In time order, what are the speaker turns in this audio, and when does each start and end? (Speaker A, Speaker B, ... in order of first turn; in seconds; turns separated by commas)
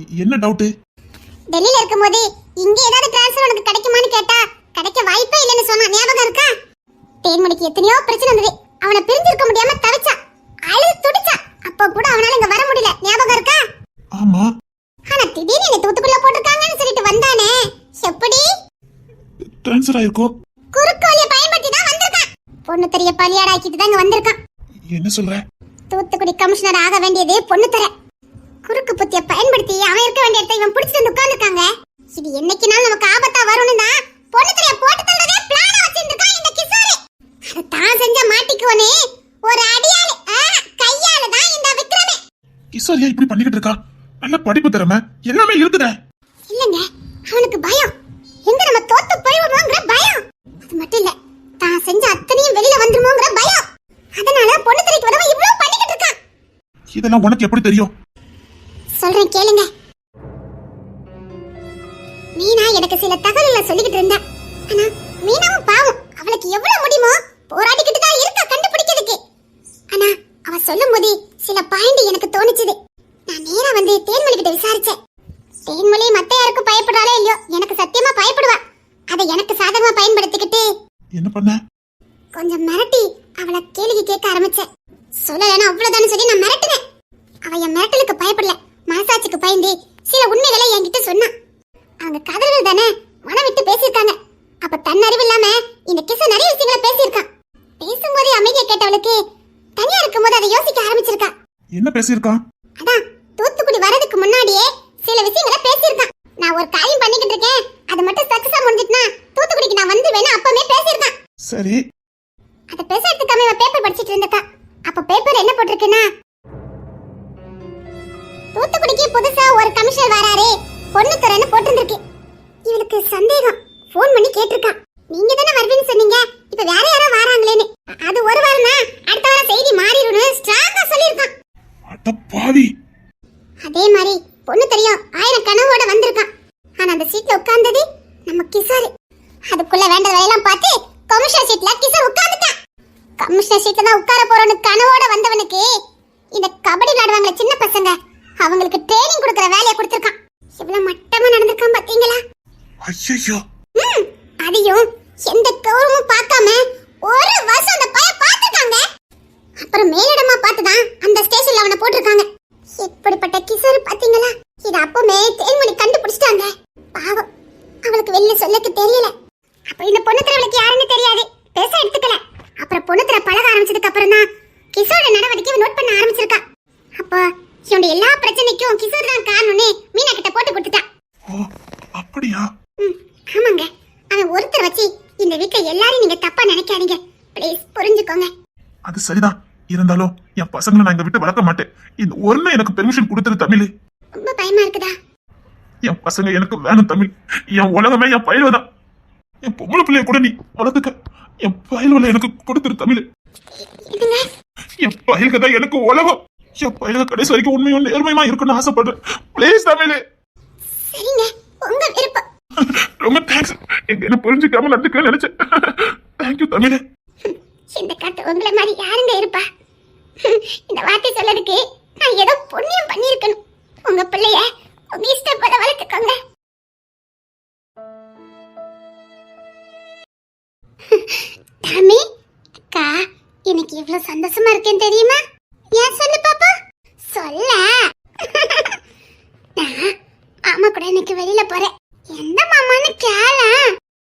Speaker A: 0.2-0.7, Speaker B: 1.5-6.5, Speaker B: 7.2-10.2, Speaker B: 10.7-13.6, Speaker A: 14.2-14.5, Speaker B: 15.1-18.4, Speaker A: 19.4-20.3, Speaker B: 20.7-24.4, Speaker A: 24.9-25.4, Speaker B: 25.9-27.9, Speaker B: 28.7-37.0, Speaker B: 37.5-38.9, Speaker B: 39.5-42.2, Speaker A: 42.7-45.9, Speaker B: 46.5-47.9, Speaker B: 48.5-50.2, Speaker B: 50.7-53.6, Speaker B: 54.2-56.1, Speaker A: 57.0-57.9, Speaker B: 59.0-59.7, Speaker B: 62.4-69.2, Speaker B: 69.9-72.8, Speaker B: 73.3-75.0, Speaker B: 75.7-78.6, Speaker B: 79.1-80.6, Speaker A: 81.1-81.6, Speaker B: 82.3-84.7, Speaker B: 85.2-86.8, Speaker B: 87.5-91.3, Speaker B: 92.0-97.2, Speaker B: 97.8-99.2, Speaker B: 99.8-101.3, Speaker A: 101.8-102.4, Speaker B: 102.8-111.1, Speaker A: 111.5-111.8, Speaker B: 112.7-116.0, Speaker B: 118.5-122.0, Speaker B: 122.7-131.3, Speaker A: 131.9-132.7, Speaker B: 133.6-136.3, Speaker B: 136.8-138.9, Speaker B: 139.5-142.5, Speaker B: 143.2-145.6, Speaker B: 146.3-152.2, Speaker A: 152.8-153.4, Speaker B: 153.8-158.8, Speaker B: 159.6-162.2, Speaker B: 162.8-167.2, Speaker B: 167.8-169.1, Speaker B: 169.7-174.2, Speaker B: 174.8-176.4, Speaker B: 177.0-180.8, Speaker A: 181.9-182.4, Speaker B: 182.8-188.3, Speaker A: 188.8-193.7, Speaker B: 194.2-194.9, Speaker A: 195.8-198.6, Speaker A: 199.4-200.9, Speaker A: 201.4-203.0, Speaker B: 203.9-204.2, Speaker A: 204.8-210.0, Speaker B: 210.9-212.2, Speaker A: 212.6-216.8, Speaker B: 217.3-219.4, Speaker B: 220.2-226.2, Speaker B: 230.9-232.0, Speaker B: 233.5-235.2, Speaker B: 235.8-236.5, Speaker B: 237.1-237.6, Speaker B: 238.2-238.8, Speaker B: 239.6-239.9, Speaker B: 240.5-243.6